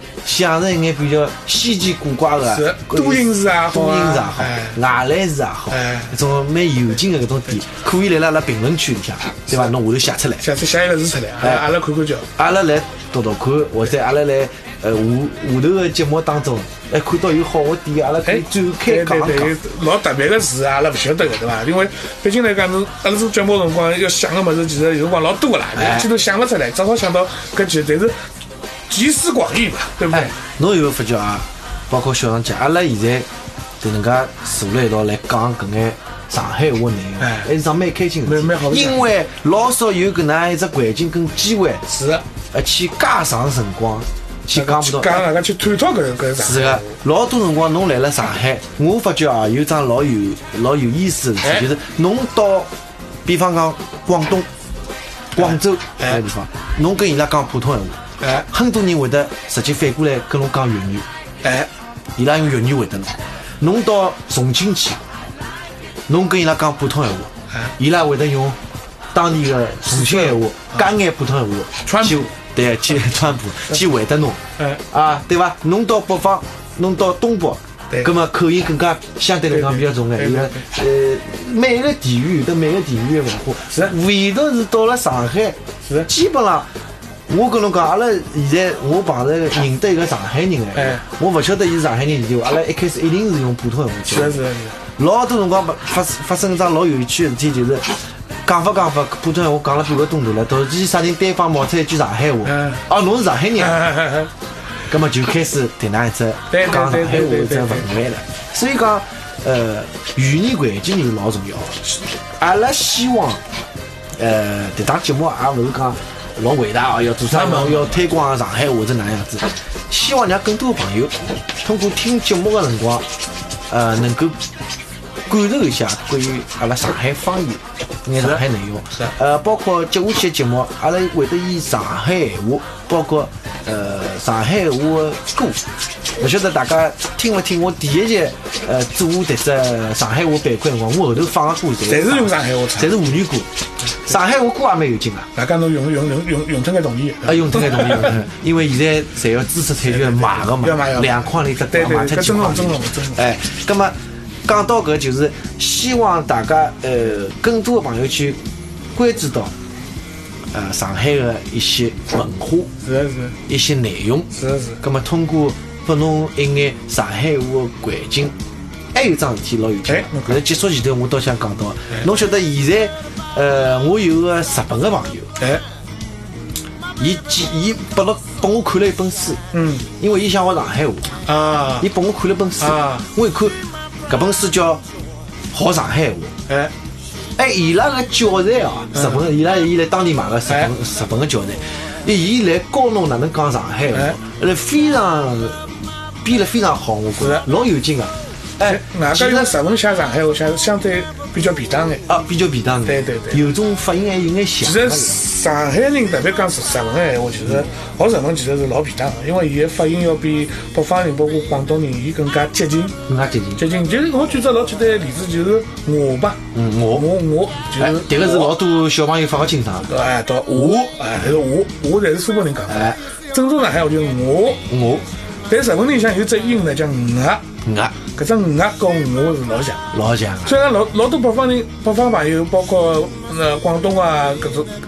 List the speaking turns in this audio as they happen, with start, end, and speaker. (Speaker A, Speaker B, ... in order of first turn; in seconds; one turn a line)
Speaker A: 0.2-10.4
Speaker B: 2.5-4.8
Speaker B: 5.7-6.1
Speaker B: 10.4-12.3
Speaker A: 12.3-19.6
Speaker B: 18.2-28.2
Speaker A: 25.8-26.1
Speaker B: 28.9-30.3
Speaker A: 30.1-33.3
Speaker A: 33.8-41.8
Speaker B: 37.2-37.5
Speaker B: 38.2-39.1
Speaker B: 41.9-42.2
Speaker A: 42.5-45.3
Speaker B: 44.5-47.0
Speaker A: 46.4-52.7
Speaker B: 51.4-51.7
Speaker A: 53.2-54.5
Speaker A: 55.3-61.0
Speaker B: 55.4-56.2
Speaker B: 58.2-58.5
Speaker B: 61.4-61.7
Speaker A: 62.1-65.0
Speaker A: 66.1-68.6
Speaker A: 69.1-86.7
Speaker B: 69.9-70.9
Speaker B: 71.8-72.3
Speaker B: 79.5-80.7
Speaker A: 87.3-94.4
Speaker B: 90.7-91.0
Speaker B: 94.1-94.8
Speaker A: 95.0-103.9
Speaker B: 102.5-102.8
Speaker B: 103.6-104.3
Speaker A: 104.9-113.4
Speaker B: 106.5-107.9
Speaker A: 114.2-123.1
Speaker B: 117.3-118.0
Speaker A: 123.7-124.4
Speaker A: 125.2-143.5
Speaker B: 141.8-143.1
Speaker A: 144.0-145.3
Speaker B: 145.3-148.2
Speaker A: 147.2-158.4
Speaker B: 149.8-153.2
Speaker A: 158.9-159.5
Speaker A: 160.5-162.7
Speaker B: 162.8-163.3
Speaker A: 163.5-164.3
Speaker B: 164.3-164.8
Speaker A: 164.8-168.3
Speaker A: 168.9-175.3
Speaker B: 169.8-170.4
Speaker A: 177.0-181.1
Speaker B: 179.5-179.9
Speaker B: 181.2-181.8
Speaker A: 181.8-184.8
Speaker B: 182.6-183.0
Speaker A: 185.5-186.3
Speaker A: 187.3-199.5
Speaker B: 188.9-189.2
Speaker B: 197.2-197.4
Speaker B: 198.6-202.0
Speaker A: 202.1-205.2
Speaker B: 202.8-203.5
Speaker B: 204.6-213.0
Speaker A: 213.1-213.6
Speaker B: 213.6-218.5
Speaker A: 216.5-217.1
Speaker A: 217.8-219.9
Speaker B: 219.9-224.6
Speaker A: 220.5-221.2
Speaker A: 222.7-223.0
Speaker A: 224.7-225.0
Speaker B: 225.5-227.4
Speaker A: 227.6-227.9
Speaker B: 228.1-229.9
Speaker A: 229.9-230.6
Speaker B: 230.4-234.7